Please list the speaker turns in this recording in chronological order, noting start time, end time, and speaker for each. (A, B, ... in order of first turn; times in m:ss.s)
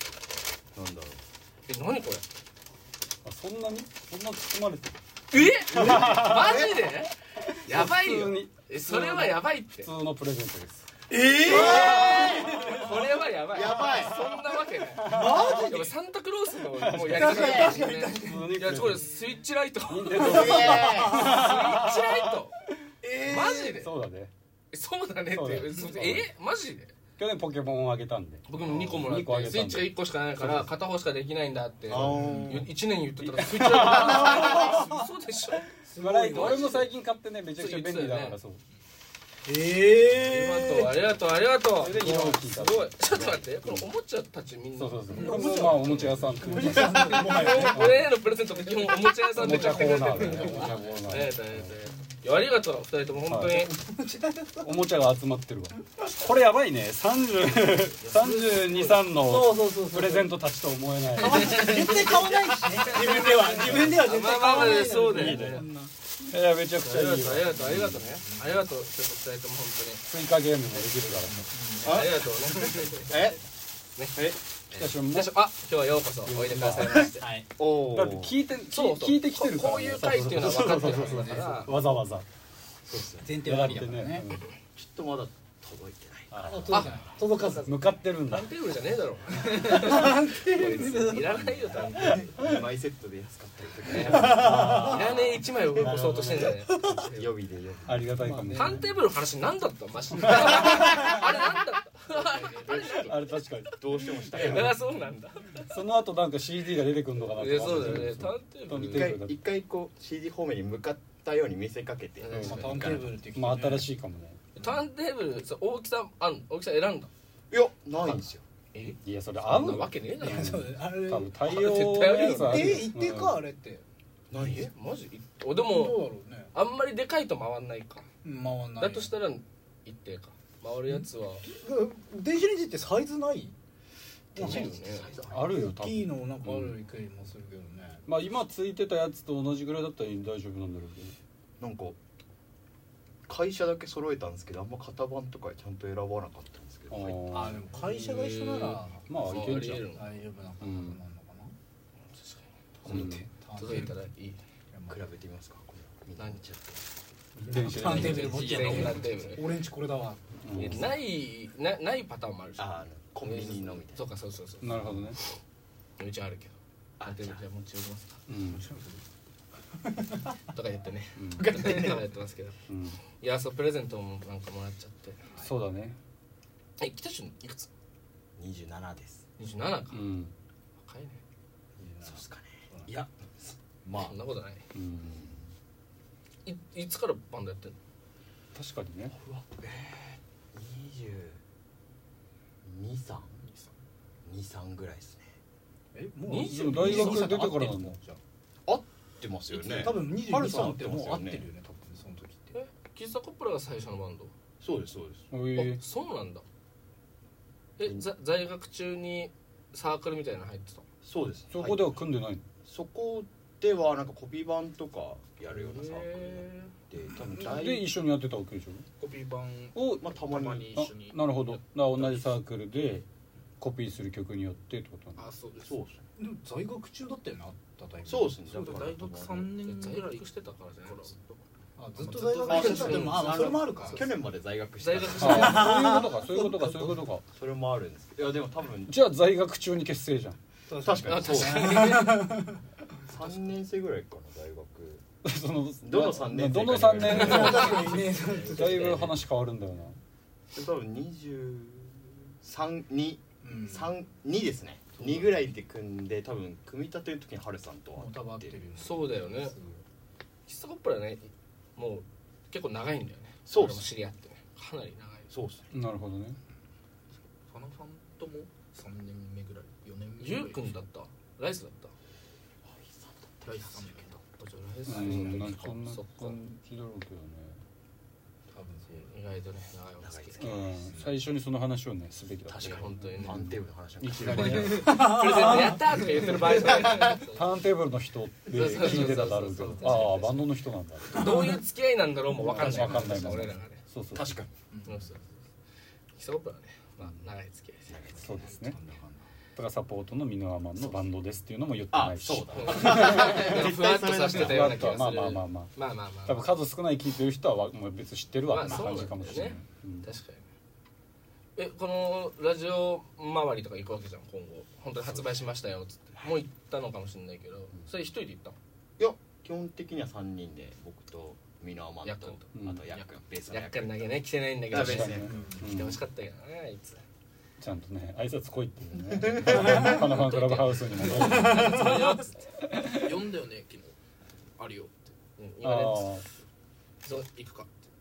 0:00.7-0:01.2 A
0:01.7-0:02.2 B
0:03.2-0:05.0 C
0:05.3-0:07.1 B
0:05.7-0:06.8 C
0:05.7-0:06.9 A
0:05.8-0:06.1 D
0:07.5-0:10.9 C
0:07.6-0:09.9 B
0:11.1-0:13.0 D
0:11.4-0:22.5 B
0:11.5-0:13.0 A
0:13.5-0:14.2 A
0:15.0-0:15.8 C
0:15.0-0:15.9 D
0:16.7-0:19.1 C
0:17.1-0:18.6 D
0:17.3-0:17.8 A
0:19.9-0:22.4 C
0:20.2-0:21.6 D
0:20.2-0:21.3 A
0:23.0-0:23.8 D
0:23.2-0:23.9 B
0:23.5-0:24.3 C
0:24.7-0:26.9 B
0:25.3-0:26.3 C
0:27.2-0:30.7 C
0:28.5-0:35.7 B
0:31.9-0:32.7 A
0:32.0-0:32.6 D
0:33.2-0:34.8 C
0:33.9-0:35.0 D
0:35.8-0:36.8 D
0:36.0-0:38.6 C
0:36.2-0:36.9 B
0:37.6-0:38.4 B
0:39.4-0:41.0 D
0:40.2-0:53.7 B
0:41.8-0:43.9 C
0:44.7-0:48.1 C
0:45.1-0:48.0 D
0:48.6-0:51.0 D
0:49.3-0:51.7 C
0:53.3-0:53.6 C
0:53.5-0:54.7 D
0:54.6-1:01.9 C
0:58.0-0:59.0 B
0:59.1-1:00.3 D
1:01.1-1:05.9 D
1:01.2-1:05.7 B
1:04.4-1:05.7 C
1:06.2-1:08.0 C
1:06.8-1:10.0 B
1:08.1-1:08.6 D
1:10.1-1:11.5 C
1:11.4-1:12.9 D
1:11.8-1:12.2 A
1:11.8-1:13.3 B
1:13.0-1:13.4 A
1:14.7-1:17.3 B
1:14.7-1:15.3 C
1:16.2-1:17.1 C
1:17.2-1:17.5 D
1:17.6-1:18.4 A
1:17.8-1:22.2 C
1:18.7-1:21.8 B
1:20.6-1:21.7 D
1:22.9-1:23.4 A
1:23.2-1:24.3 D
1:23.4-1:24.4 C
1:24.7-1:26.8 A
1:26.3-1:26.9 C
1:26.4-1:27.7 D
1:26.7-1:32.4 B
1:27.6-1:28.5 C
1:29.4-1:32.5 D
1:32.0-1:35.4 A
1:33.9-1:37.3 B
1:34.0-1:35.0 D
1:34.2-1:36.9 C
1:36.6-1:37.0 D
1:37.1-1:38.1 A
1:37.8-1:38.9 C
1:38.1-1:38.8 D
1:38.5-1:43.4 B
1:40.2-1:40.5 C
1:40.4-1:41.4 D
1:42.2-1:42.6 D
1:42.6-1:43.1 A
1:43.0-1:43.8 C
1:43.8-1:45.2 A
1:44.3-1:44.8 C
1:44.3-1:45.7 B
1:45.7-1:49.4 C
1:47.3-1:49.2 B
1:48.7-1:53.1 A
1:52.2-1:53.0 B
1:52.3-1:54.4 C
1:52.4-1:53.9 D
1:54.6-1:57.1 B
1:57.5-1:58.4 A
1:58.7-2:00.7 B
1:59.0-2:03.4 C
2:00.2-2:03.8 D
2:01.4-2:02.9 B
2:04.3-2:04.7 A
2:04.3-2:08.1 B
2:05.6-2:06.5 D
2:08.2-2:09.1 D
2:08.8-2:11.4 B
2:10.9-2:13.5 D
2:14.3-2:14.7 D
2:14.3-2:15.3 B
2:14.4-2:15.3 A
2:15.3-2:16.8 C
2:15.3-2:18.0 D
2:18.1-2:21.1 C
2:21.6-2:22.0 A
2:23.3-2:27.2 A
2:26.9-2:27.7 C
2:27.3-2:29.2 D
2:27.8-2:30.1 B
2:29.1-2:29.8 C
2:29.9-2:31.5 D
2:30.6-2:31.0 C
2:32.1-2:34.4 B
2:32.8-2:33.3 C
2:32.8-2:34.0 D
2:34.7-2:35.0 D
2:34.9-2:36.8 A
2:36.2-2:36.4 B
2:37.4-2:38.8 C
2:37.4-2:40.2 D
2:37.6-2:39.5 B
2:38.4-2:39.0 A
2:40.4-2:41.0 C
2:40.5-2:45.2 B
2:42.6-2:44.0 A
2:44.6-2:45.2 C
2:46.0-2:48.2 B
2:47.0-2:47.4 A
2:48.3-2:48.6 C
2:48.4-2:49.0 D
2:49.8-2:50.3 D
2:50.5-2:52.6 B
2:51.2-2:51.7 C
2:51.4-2:52.0 D
2:52.7-2:53.0 C
2:53.1-2:55.2 B
2:55.3-2:55.6 D
2:55.4-2:56.0 C
2:56.8-2:57.7 B
2:58.4-2:59.2 A
2:59.4-3:00.1 B
2:59.9-3:00.3 C
3:00.8-3:01.2 B
3:01.8-3:02.9 D
3:02.0-3:04.1 A
3:03.9-3:04.6 B
3:04.7-3:05.2 C
3:05.0-3:05.4 A
3:06.4-3:07.8 B
3:08.5-3:09.1 C
3:09.1-3:11.4 A
3:12.6-3:13.4 A
3:13.4-3:13.7 E
3:14.2-3:15.2 A
3:15.9-3:18.2 D
3:16.2-3:17.7 B
3:16.4-3:18.0 C
3:18.6-3:21.5 A
3:19.5-3:22.6 D
3:22.5-3:24.3 B
3:24.6-3:25.3 A
3:25.3-3:25.8 C
3:25.5-3:26.4 B
3:27.8-3:30.8 B
3:31.0-3:32.0 A
3:31.5-3:32.4 C
3:32.6-3:37.9 A
3:35.7-3:36.6 B
3:37.2-3:37.6 D
3:37.4-3:38.8 C
3:39.0-3:42.4 E
3:39.7-3:40.1 C
3:40.0-3:40.7 A
3:40.7-3:43.0 C
3:43.6-3:45.3 C
3:45.2-3:45.8 E
3:45.6-3:46.0 A
3:46.2-3:48.8 D
3:48.0-3:49.5 A
3:48.4-3:50.3 E
3:49.6-3:51.4 B
3:50.8-3:51.1 E
3:51.8-3:54.2 D
3:52.0-3:54.0 E
3:52.5-3:55.7 A
3:52.5-3:53.6 B
3:54.8-3:55.9 B
3:55.2-3:57.2 C
3:55.3-3:57.0 D
3:57.3-3:59.0 A
3:58.9-4:00.4 C
4:00.7-4:02.6 D
4:00.8-4:02.0 A
4:01.0-4:02.5 B
4:03.0-4:05.0 A
4:05.2-4:10.0 C
4:05.8-4:08.0 A
4:07.0-4:09.2 D
4:07.1-4:09.1 B
4:10.5-4:18.6 A
4:13.4-4:14.0 D
4:15.0-4:15.3 D
4:18.0-4:19.8 D
4:18.8-4:19.6 B
4:20.5-4:25.3 B
4:23.4-4:23.9 A
4:25.3-4:25.7 A
4:25.7-4:26.4 C
4:27.5-4:30.8 E
4:30.2-4:31.9 B
4:32.6-4:33.9 A
4:33.4-4:34.2 E
4:34.2-4:36.4 B
4:34.9-4:37.6 C
4:35.0-4:35.5 D
4:38.5-4:39.1 D
4:39.1-4:40.5 B
4:40.0-4:40.9 A
4:40.4-4:45.6 C
4:42.5-4:43.5 B
4:42.5-4:45.0 A
4:44.3-4:47.5 B
4:44.7-4:46.4 D
4:46.5-4:47.2 A
4:46.5-4:51.4 C
4:48.5-4:50.5 B
4:51.1-4:53.8 B
4:51.1-4:51.5 D
4:52.3-4:54.3 C
4:52.7-4:53.0 A
4:54.1-4:54.5 A
4:54.7-4:55.1 D
4:54.8-4:55.3 B
4:56.2-4:58.0 B
4:57.9-4:58.5 A
4:58.2-4:58.8 C
4:58.3-4:59.2 D
4:59.6-5:03.6 C
5:01.9-5:05.0 A
5:02.5-5:06.4 B
5:04.3-5:10.1 C
5:08.5-5:10.4 B
5:08.6-5:09.1 D
5:11.6-5:18.6 B
5:19.0-5:24.2 A
5:22.0-5:22.4 B
5:22.5-5:22.8 C
5:23.5-5:27.0 B
5:24.7-5:25.3 A
5:24.7-5:26.0 C
5:25.2-5:25.7 D
5:27.6-5:32.1 C
5:29.2-5:29.9 A
5:29.6-5:32.4 B
5:31.2-5:32.1 D
5:32.6-5:33.0 C
5:32.7-5:33.9 E
5:34.6-5:35.1 E
5:35.4-5:36.2 B
5:35.6-5:36.2 C
5:37.1-5:37.7 E